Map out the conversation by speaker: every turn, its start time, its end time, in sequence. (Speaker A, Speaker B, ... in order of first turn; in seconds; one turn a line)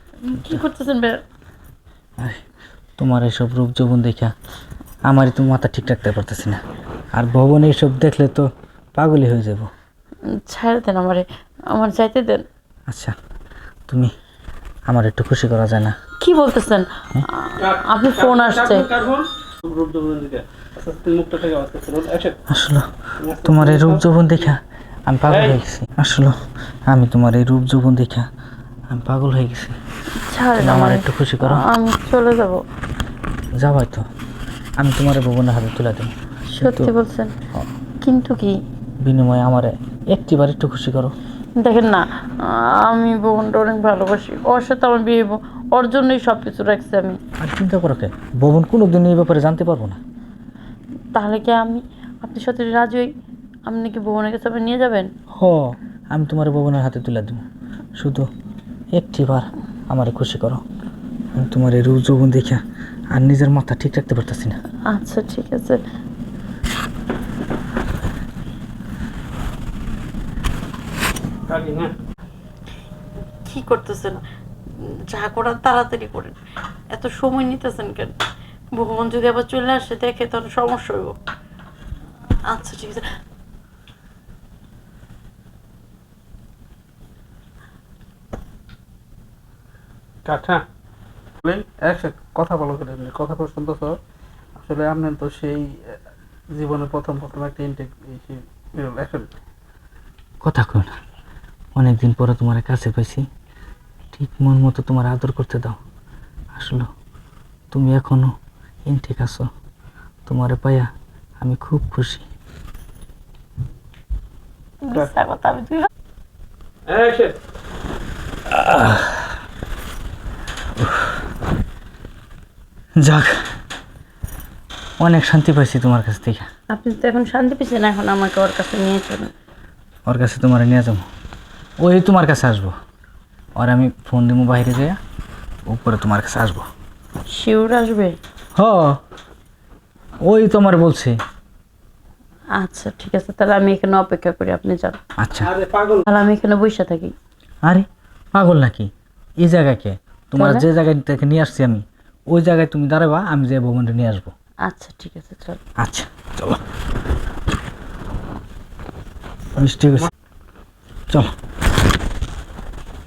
Speaker A: 0.2-1.2
Speaker B: 3.0-4.3
Speaker B: 5.0-6.6
Speaker B: 7.1-9.7
Speaker A: 10.3-12.4
Speaker B: 12.9-13.1
Speaker B: 14.9-15.9
Speaker A: 16.2-18.9
Speaker C: 17.6-22.4
Speaker B: 22.5-26.3
Speaker C: 23.2-24.0
Speaker B: 26.9-28.3
Speaker B: 28.9-29.8
Speaker A: 30.2-32.6
Speaker B: 30.6-31.6
Speaker B: 33.6-34.0
Speaker B: 34.8-36.9
Speaker A: 36.6-37.3
Speaker A: 38.0-38.5
Speaker B: 39.0-41.1
Speaker A: 41.6-47.2
Speaker B: 47.4-50.0
Speaker A: 51.1-53.1
Speaker A: 53.7-55.1
Speaker B: 55.4-57.4
Speaker B: 58.0-58.3
Speaker B: 58.9-60.6
Speaker B: 61.3-62.6
Speaker B: 63.1-64.6
Speaker A: 64.9-65.8
Speaker C: 71.5-71.9
Speaker A: 73.5-74.2
Speaker A: 75.1-76.3
Speaker A: 76.9-78.1
Speaker A: 78.7-81.2
Speaker A: 82.5-83.1
Speaker C: 90.2-90.6
Speaker C: 91.4-94.0
Speaker C: 94.5-96.0
Speaker C: 96.5-99.3
Speaker B: 100.4-100.9
Speaker B: 101.7-103.2
Speaker B: 104.1-105.8
Speaker B: 106.5-106.9
Speaker B: 107.7-108.3
Speaker B: 108.9-109.5
Speaker B: 110.2-112.2
Speaker A: 114.8-115.9
Speaker C: 116.9-117.3
Speaker B: 118.5-119.4
Speaker B: 120.8-121.2
Speaker B: 123.0-123.4
Speaker B: 125.0-126.4
Speaker A: 126.7-129.3
Speaker B: 130.1-131.1
Speaker B: 131.8-132.7
Speaker B: 133.6-135.0
Speaker B: 135.7-136.7
Speaker A: 137.3-138.2
Speaker B: 138.6-139.0
Speaker B: 140.2-141.2
Speaker A: 142.6-145.0
Speaker B: 145.2-145.5
Speaker C: 145.5-146.0
Speaker A: 146.1-147.1
Speaker B: 147.6-154.3
Speaker A: 150.4-150.7
Speaker A: 154.6-155.6
Speaker B: 155.8-156.6
Speaker B: 159.6-160.1